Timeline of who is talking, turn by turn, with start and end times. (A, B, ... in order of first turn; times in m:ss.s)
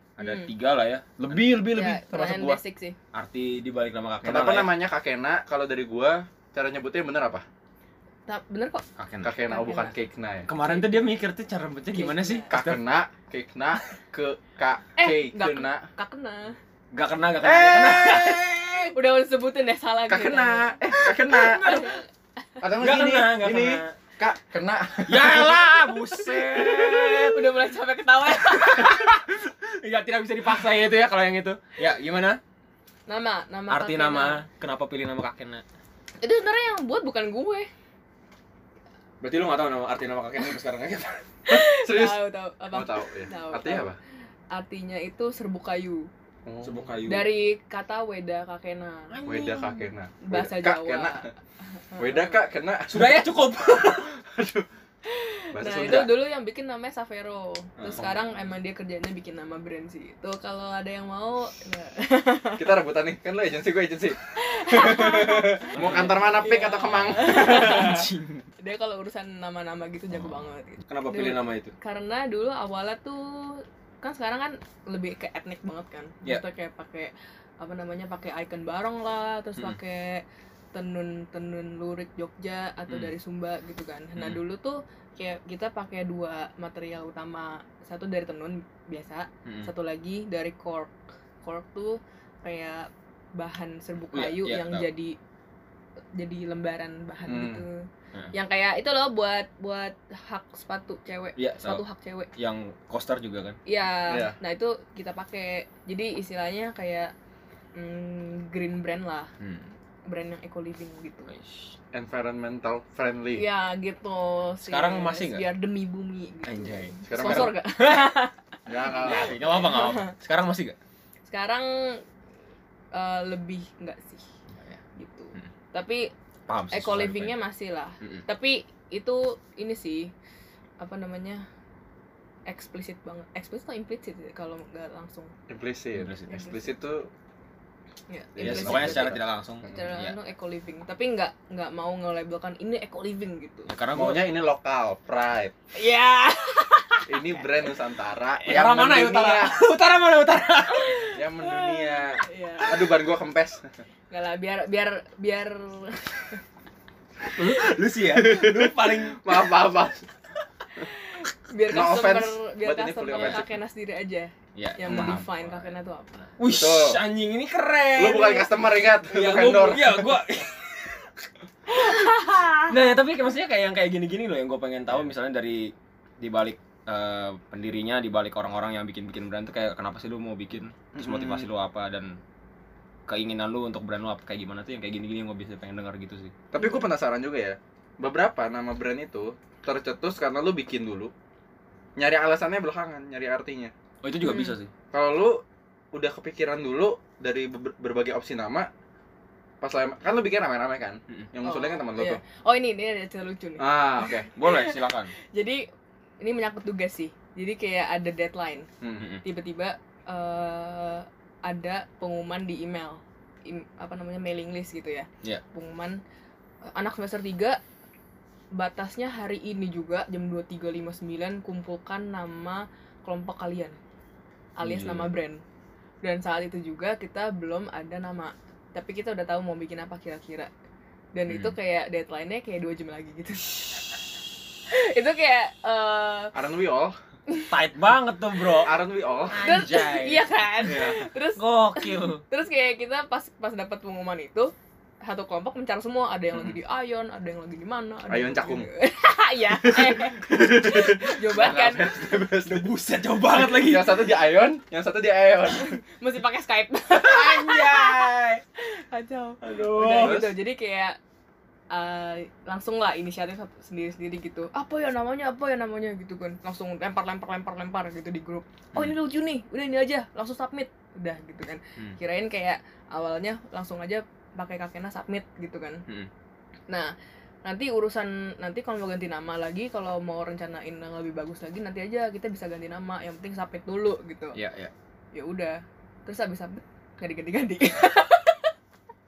0:00.2-0:01.4 A
0:00.2-0:00.5 B
0:01.2-0:02.6 C
0:01.7-0:03.0 B
0:03.1-0:04.7 A
0:04.2-0:07.4 C
0:08.3-0:08.8 B
0:09.0-0:09.3 A
0:09.2-0:10.5 C
0:09.5-0:09.9 B
0:10.5-0:12.8 A
0:10.6-0:11.1 B
0:11.9-0:12.5 B
0:12.5-0:15.9 C
0:15.0-0:16.6 B
0:16.9-0:18.9 A
0:17.4-0:18.8 C
0:18.9-0:20.8 B
0:20.1-0:21.9 C
0:21.0-0:22.0 A
0:21.6-0:22.0 B
0:22.6-0:25.7 C
0:22.8-0:24.0 A
0:25.1-0:27.6 A
0:26.4-0:29.1 B
0:28.3-0:32.4 A
0:33.1-0:34.4 B
0:33.7-0:35.6 A
0:36.2-0:37.7 B
0:39.2-0:41.2 A
0:41.5-0:43.9 B
0:41.5-0:44.0 C
0:44.5-0:46.1 B
0:46.5-0:46.8 C
0:46.6-0:47.3 A
0:47.1-0:49.2 B
0:49.1-0:49.9 A
0:49.2-0:51.2 C
0:50.2-0:51.3 B
0:51.9-0:52.4 B
0:52.0-0:54.7 C
0:52.9-0:54.1 A
0:55.1-1:02.6 B
0:55.5-0:56.1 C
0:57.8-0:58.1 A
1:02.6-1:08.1 C
1:04.4-1:08.1 B
1:05.8-1:08.4 A
1:08.6-1:35.2 B
1:10.1-1:11.7 A
1:29.4-1:29.7 A
1:34.1-1:34.9 A
1:36.2-1:42.3 B
1:37.3-1:37.6 C
1:41.4-1:41.8 A
1:42.4-1:43.6 A
1:43.7-1:47.1 B
1:44.1-1:44.4 C
1:47.8-1:49.3 B
1:49.4-1:49.7 A
1:50.1-1:51.3 B
1:51.3-1:51.8 A
1:51.9-1:53.5 C
1:53.4-2:00.1 B
1:54.6-1:55.5 A
1:56.4-1:58.1 A
1:57.1-1:57.6 C
1:58.7-1:59.4 C
1:59.0-2:00.8 A
2:01.3-2:02.0 B
2:02.9-2:04.2 B
2:04.5-2:04.8 A
2:05.0-2:06.1 B
2:06.5-2:07.4 A
2:06.7-2:10.1 B
2:10.8-2:11.5 B
2:12.5-2:15.3 B
2:15.5-2:17.1 C
2:16.0-2:16.3 A
2:16.3-2:16.7 B
2:18.1-2:23.7 B
2:18.4-2:19.2 C
2:18.4-2:20.2 A
2:23.7-2:24.3 A
2:23.9-2:25.5 C
2:25.8-2:27.7 B
2:27.1-2:29.6 C
2:28.5-2:31.1 A
2:31.1-2:33.7 C
2:31.4-2:32.9 B
2:34.1-2:36.4 B
2:37.2-2:39.7 A
2:38.1-2:40.0 C
2:40.8-2:46.3 B
2:41.7-2:43.5 C
2:43.1-2:43.4 A
2:44.6-2:45.7 A
2:44.9-2:45.2 C
2:46.4-2:51.3 A
2:46.4-2:47.0 C
2:48.0-2:50.1 C
2:51.7-2:52.7 B
2:52.6-3:02.2 A
3:00.9-3:01.5 C
3:03.1-3:06.3 A
3:06.5-3:11.1 C
3:12.0-3:13.7 C
3:14.0-3:14.7 A
3:14.2-3:14.6 B
3:14.9-3:15.4 C
3:15.9-3:18.7 C
3:19.6-3:22.2 C
3:21.4-3:25.6 B
3:23.6-3:24.3 C
3:24.4-3:25.1 A
3:26.2-3:28.7 B
3:28.8-3:29.1 C
3:29.0-3:29.2 A
3:29.2-3:36.0 B
3:36.7-3:37.6 B
3:38.5-3:43.8 B
3:44.6-3:45.4 B
3:44.6-3:45.1 A
3:46.0-3:50.5 B
3:51.1-3:53.8 B
3:51.3-3:51.5 A
3:54.7-3:56.3 B
3:56.3-3:57.0 C
3:57.5-3:58.8 A
3:58.6-3:59.5 C
3:59.3-4:02.2 A
3:59.3-4:11.9 B
4:00.7-4:01.0 C
4:08.1-4:08.7 C
4:09.6-4:12.7 C
4:12.4-4:14.1 A
4:13.3-4:15.8 C
4:15.5-4:21.0 B
4:17.0-4:18.4 A
4:19.4-4:20.2 A
4:20.0-4:20.3 C
4:21.7-4:35.8 B
4:37.4-4:44.4 B
4:44.3-4:44.7 A
4:45.1-4:48.5 B